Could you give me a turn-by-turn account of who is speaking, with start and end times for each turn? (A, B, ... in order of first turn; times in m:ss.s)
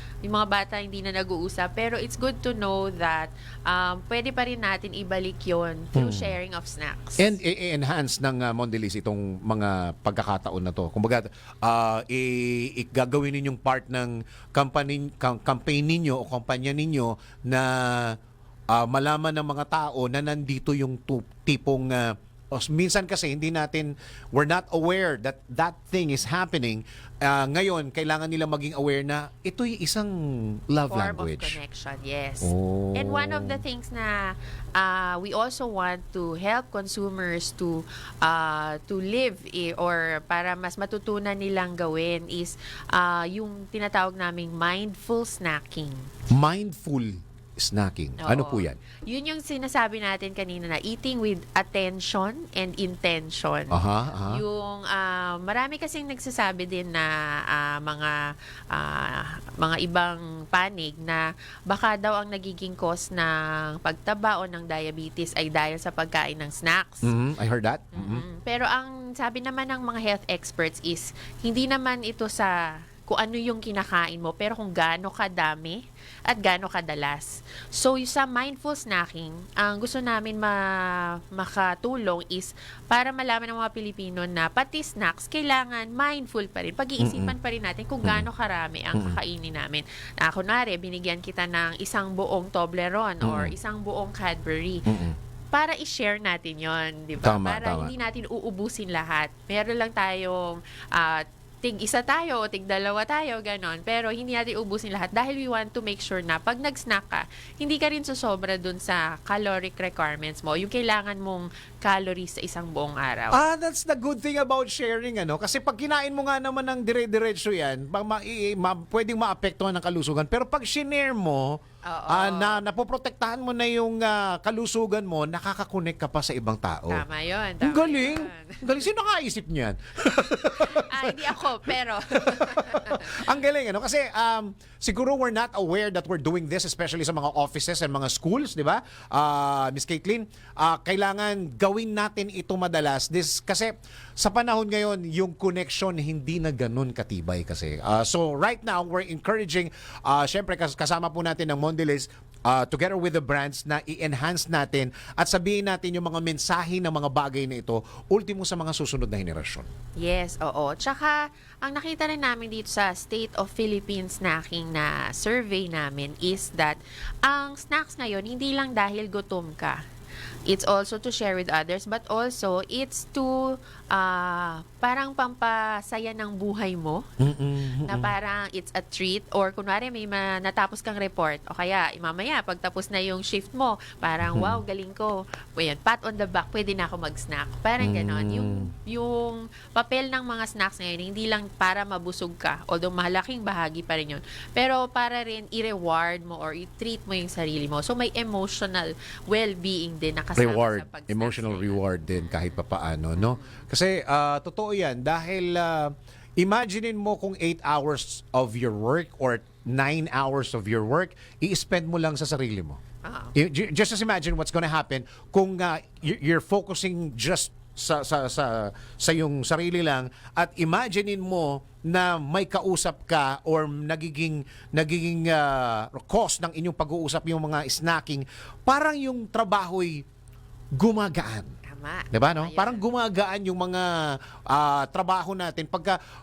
0:00.2-0:07.3 A
0:06.0-0:06.3 B
0:07.2-0:18.2 B
0:18.7-0:31.6 B
0:30.9-0:46.1 A
0:32.4-0:33.6 B
0:46.3-0:48.8 B
0:48.2-0:58.2 A
0:53.7-0:54.4 B
0:58.7-1:07.1 A
1:07.0-1:08.2 B
1:07.9-1:34.8 A
1:27.0-1:27.3 B
1:28.9-1:29.2 B
1:33.2-1:33.5 B
1:34.9-1:35.2 B
1:35.5-1:53.4 A
1:37.2-1:37.9 B
1:53.3-2:07.0 B
2:01.8-2:02.6 A
2:06.9-2:08.9 A
2:07.6-2:39.7 B
2:10.5-2:13.3 A
2:40.0-2:49.8 A
2:50.5-2:57.1 A
2:57.2-2:58.1 B
2:57.8-3:22.6 A
3:04.2-3:04.6 B
3:07.8-3:08.7 B
3:20.4-3:32.8 B
3:23.2-3:23.5 A
3:33.0-3:33.4 A
3:33.4-3:50.0 B
3:50.8-3:51.5 B
3:51.7-3:52.8 A
3:52.1-3:56.0 B